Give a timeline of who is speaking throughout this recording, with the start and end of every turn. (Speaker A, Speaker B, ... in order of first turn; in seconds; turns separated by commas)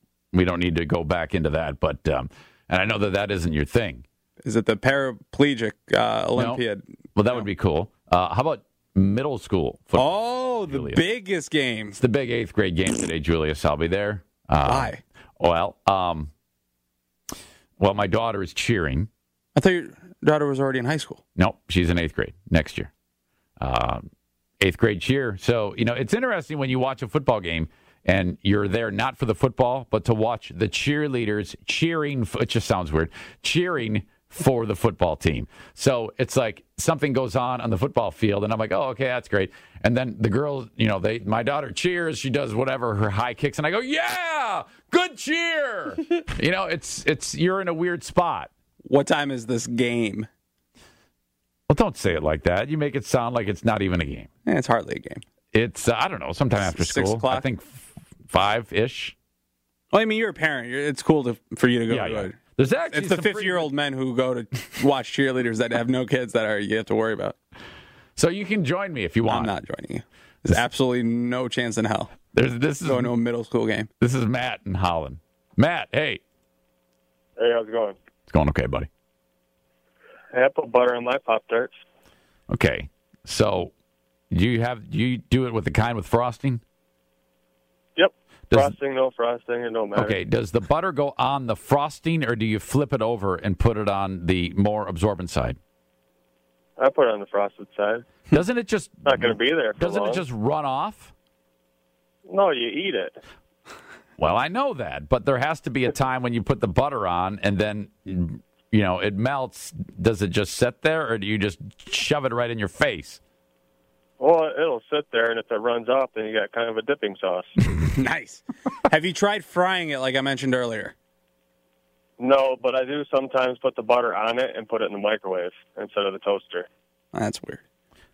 Speaker A: 0.3-4.0, Speaker B: 4.4-6.8, Speaker A: 6.4-6.6, Speaker A: 7.2-11.1, Speaker B: 9.9-12.0, Speaker A: 12.0-16.3, Speaker B: 14.6-15.0, Speaker A: 17.8-19.1, Speaker B: 19.6-21.2, Speaker A: 21.4-22.9, Speaker A: 23.6-24.1, Speaker A: 24.6-48.5, Speaker B: 48.9-50.3, Speaker A: 51.7-54.3, Speaker B: 54.5-55.2, Speaker A: 55.5-59.1, Speaker B: 56.6-57.5, Speaker B: 59.9-62.4, Speaker A: 61.9-63.7, Speaker B: 62.9-67.4, Speaker A: 68.2-69.5, Speaker B: 69.3-72.1, Speaker A: 72.3-73.1, Speaker B: 72.8-73.9, Speaker A: 74.0-76.2, Speaker C: 77.4-78.0, Speaker A: 78.3-78.9, Speaker C: 80.3-81.8, Speaker A: 82.5-83.7, Speaker A: 84.3-86.6, Speaker C: 88.0-90.2, Speaker A: 88.5-88.8, Speaker A: 90.0-95.6, Speaker C: 96.8-98.1, Speaker A: 98.3-101.1, Speaker C: 99.0-100.2, Speaker C: 102.3-103.2, Speaker A: 104.2-113.2, Speaker C: 114.2-117.5, Speaker B: 117.9-120.9, Speaker C: 122.2-126.7, Speaker B: 127.1-127.6